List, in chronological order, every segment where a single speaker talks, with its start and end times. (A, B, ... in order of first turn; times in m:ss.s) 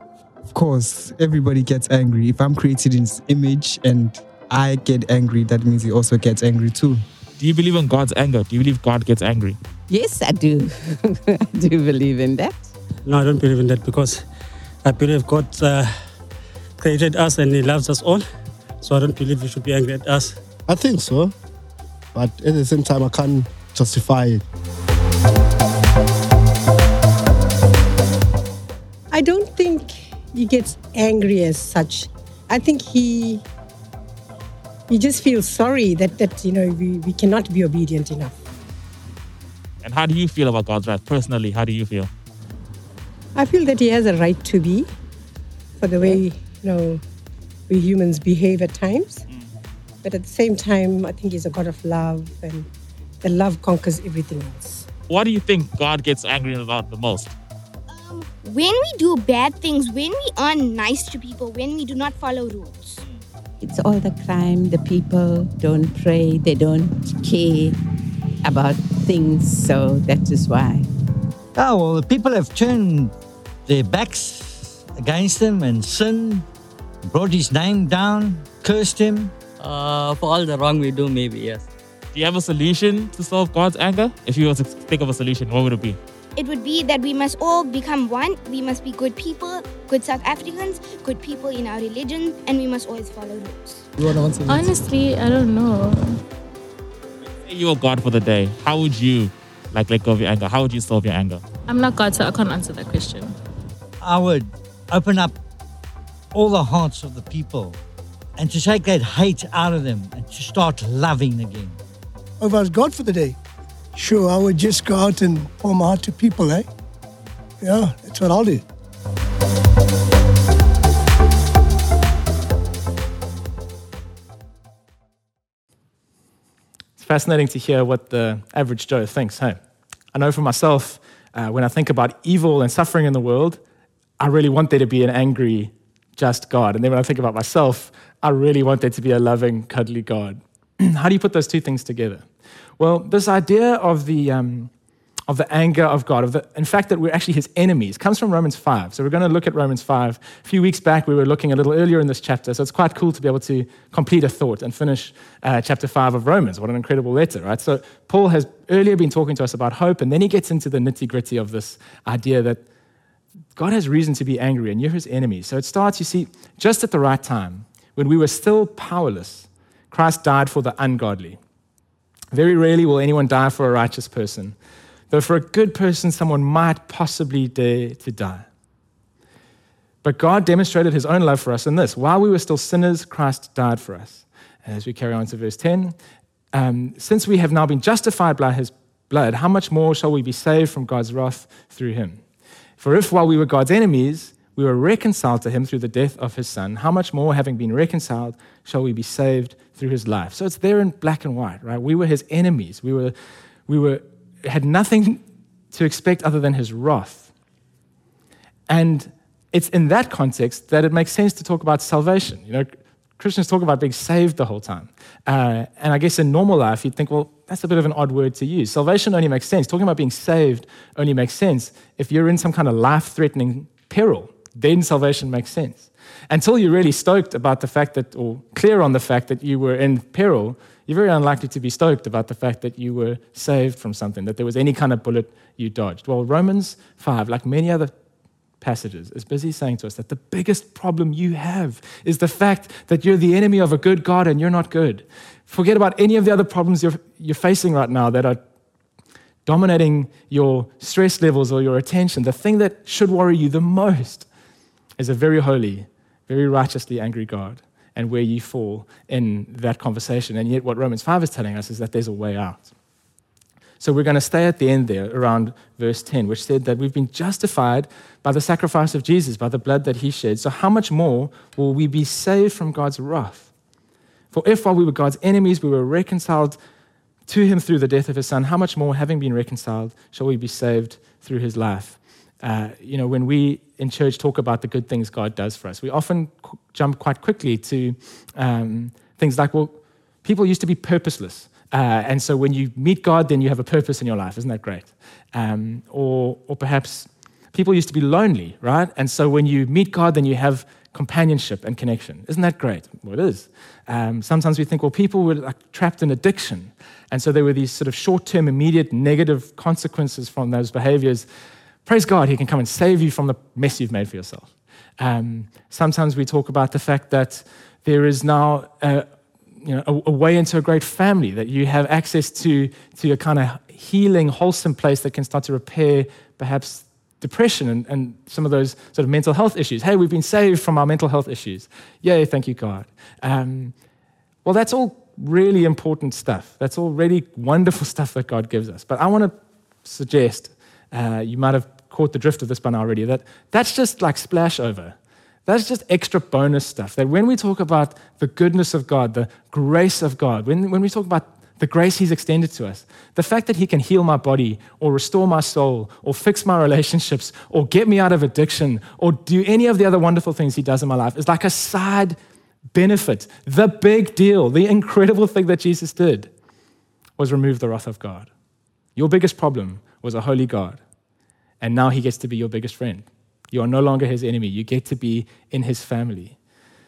0:00.5-0:07.0 A
0:07.4-0:09.6 B
0:09.9-0:12.7 C
0:13.0-0:14.2 D
0:14.8-0:15.9 D
0:16.8-0:18.2 D
0:18.8-0:20.4 D
0:20.7-0:21.3 E
0:22.1-0:24.4 E
0:29.1-0:33.4 F
0:34.9-0:38.4 F
0:39.8-0:42.1 B
0:43.3-0:44.9 F
0:45.8-0:47.0 F
0:47.7-0:49.2 F
0:50.0-0:52.7 F
0:53.2-0:54.9 F
0:55.1-0:57.3 B
0:57.9-1:03.0 G
1:03.6-1:07.8 C
1:08.4-1:10.8 C
1:11.5-1:13.1 H
1:13.7-1:16.4 H
1:17.1-1:19.3 H
1:19.6-1:21.7 I
1:22.1-1:26.0 B
1:26.4-1:33.8 G
1:34.5-1:36.2 J
1:37.4-1:41.4 B
1:41.7-1:43.3 J
1:44.0-1:45.4 H
1:46.3-1:47.8 H
1:48.4-1:51.8 H
1:52.4-1:53.4 K
1:53.9-1:56.7 K
1:57.6-1:58.6 K
2:07.0-2:09.6 L
2:10.1-2:13.6 L
2:14.2-2:22.2 L
2:22.8-2:24.7 L
2:25.3-2:42.6 L
2:43.6-2:51.4 L
2:52.3-2:54.6 L
2:55.1-2:58.5 L
3:00.0-3:05.9 L
3:06.5-3:12.2 L
3:12.8-3:23.1 L
3:23.7-3:27.3 L
3:28.7-3:57.9 L
3:58.6-4:08.4 L
4:09.4-4:14.2 L
4:15.0-4:22.7 L
4:23.8-4:33.5 L
4:34.3-4:36.6 L
4:37.3-5:11.2 L
5:11.8-5:19.0 L
5:19.6-5:33.7 L
5:34.4-6:02.2 L
6:02.7-6:06.3 L
6:07.2-6:08.3 L
6:09.0-6:10.8 L
6:11.6-6:16.4 L